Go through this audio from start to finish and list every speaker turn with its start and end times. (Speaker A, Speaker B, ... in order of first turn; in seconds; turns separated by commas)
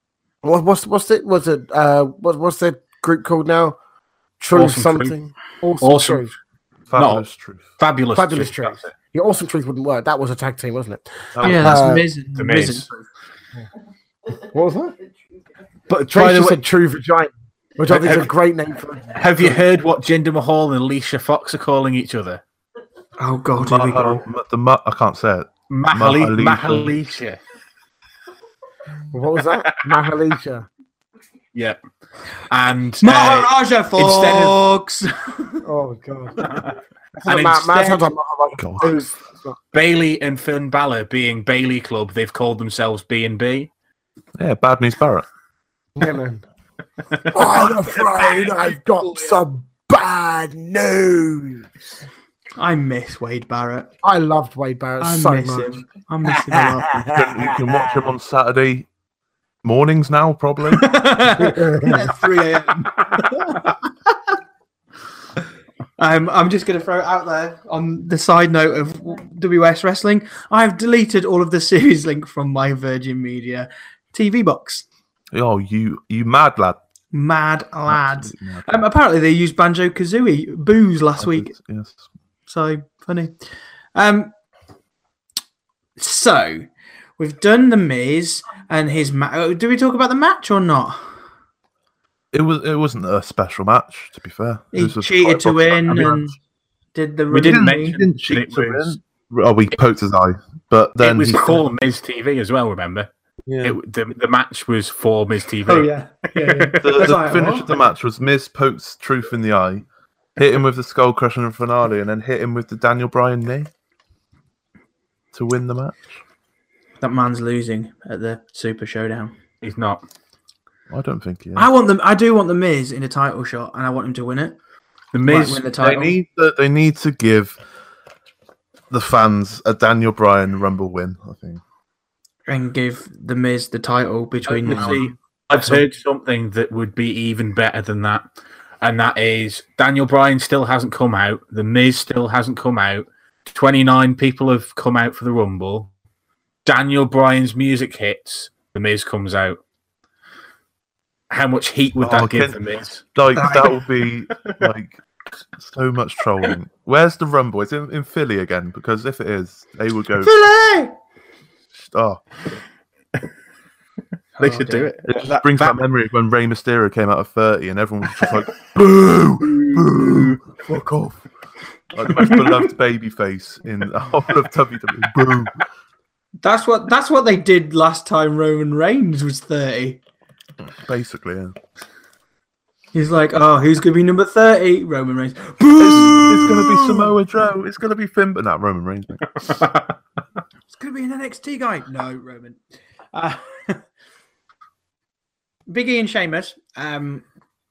Speaker A: 0.4-3.8, Speaker A: 4.4-6.3, Speaker B: 4.5-5.1, Speaker B: 5.8-6.2, Speaker C: 6.9-7.6, Speaker B: 7.0-7.2, Speaker B: 7.8-8.9, Speaker A: 8.1-12.1, Speaker C: 11.3-11.9, Speaker D: 11.4-13.0, Speaker B: 12.3-12.9, Speaker A: 14.3-15.0, Speaker B: 15.9-16.6, Speaker A: 16.0-19.6, Speaker B: 17.9-18.3, Speaker B: 19.1-22.4, Speaker D: 23.2-24.2, Speaker C: 23.6-26.9, Speaker B: 25.7-27.4, Speaker A: 29.1-30.7, Speaker B: 32.5-34.6, Speaker D: 33.0-35.6, Speaker A: 35.6-36.4, Speaker B: 36.4-36.7, Speaker A: 37.2-39.6, Speaker B: 37.2-38.0, Speaker C: 38.6-38.9, Speaker B: 39.7-43.7, Speaker C: 44.4-45.2, Speaker A: 46.0-46.4, Speaker A: 47.3-51.7, Speaker D: 52.6-53.9, Speaker A: 54.0-58.1, Speaker D: 55.0-57.0, Speaker C: 57.1-58.9, Speaker C: 59.6-61.0, Speaker D: 60.7-64.1, Speaker A: 61.4-62.1, Speaker D: 66.0-74.8, Speaker C: 75.3-76.8, Speaker D: 77.1-81.5, Speaker C: 77.9-78.8, Speaker C: 81.2-82.0, Speaker D: 82.5-83.3, Speaker D: 83.9-84.3, Speaker D: 86.0-86.7, Speaker D: 87.2-91.0, Speaker C: 92.3-96.3, Speaker D: 94.7-96.3, Speaker D: 96.9-98.0, Speaker B: 97.3-99.0, Speaker C: 97.4-101.6, Speaker B: 101.0-103.1, Speaker C: 103.5-103.8, Speaker B: 103.6-106.9, Speaker D: 105.7-107.8, Speaker C: 106.8-109.8, Speaker C: 110.4-113.7, Speaker C: 115.3-116.2, Speaker D: 117.0-119.3, Speaker B: 119.6-120.0, Speaker C: 120.9-121.7, Speaker D: 121.5-124.6, Speaker B: 125.1-125.6, Speaker D: 125.2-126.2, Speaker C: 125.8-127.6, Speaker C: 128.9-131.6, Speaker D: 132.5-135.1, Speaker B: 134.4-138.3, Speaker C: 134.7-135.8, Speaker B: 138.8-145.9, Speaker B: 146.6-149.6, Speaker B: 151.3-153.0, Speaker C: 152.0-152.6, Speaker C: 153.1-155.0, Speaker D: 153.3-153.8, Speaker C: 155.6-160.3, Speaker D: 160.2-160.9, Speaker C: 161.8-162.3, Speaker B: 164.4-165.8, Speaker D: 164.4-164.9, Speaker C: 165.0-171.2, Speaker B: 169.8-170.3, Speaker C: 171.9-175.6, Speaker D: 176.4-180.0, Speaker C: 180.8-181.5, Speaker D: 182.9-187.2, Speaker C: 185.8-189.6, Speaker D: 190.7-192.6, Speaker D: 193.1-193.8, Speaker D: 195.7-197.2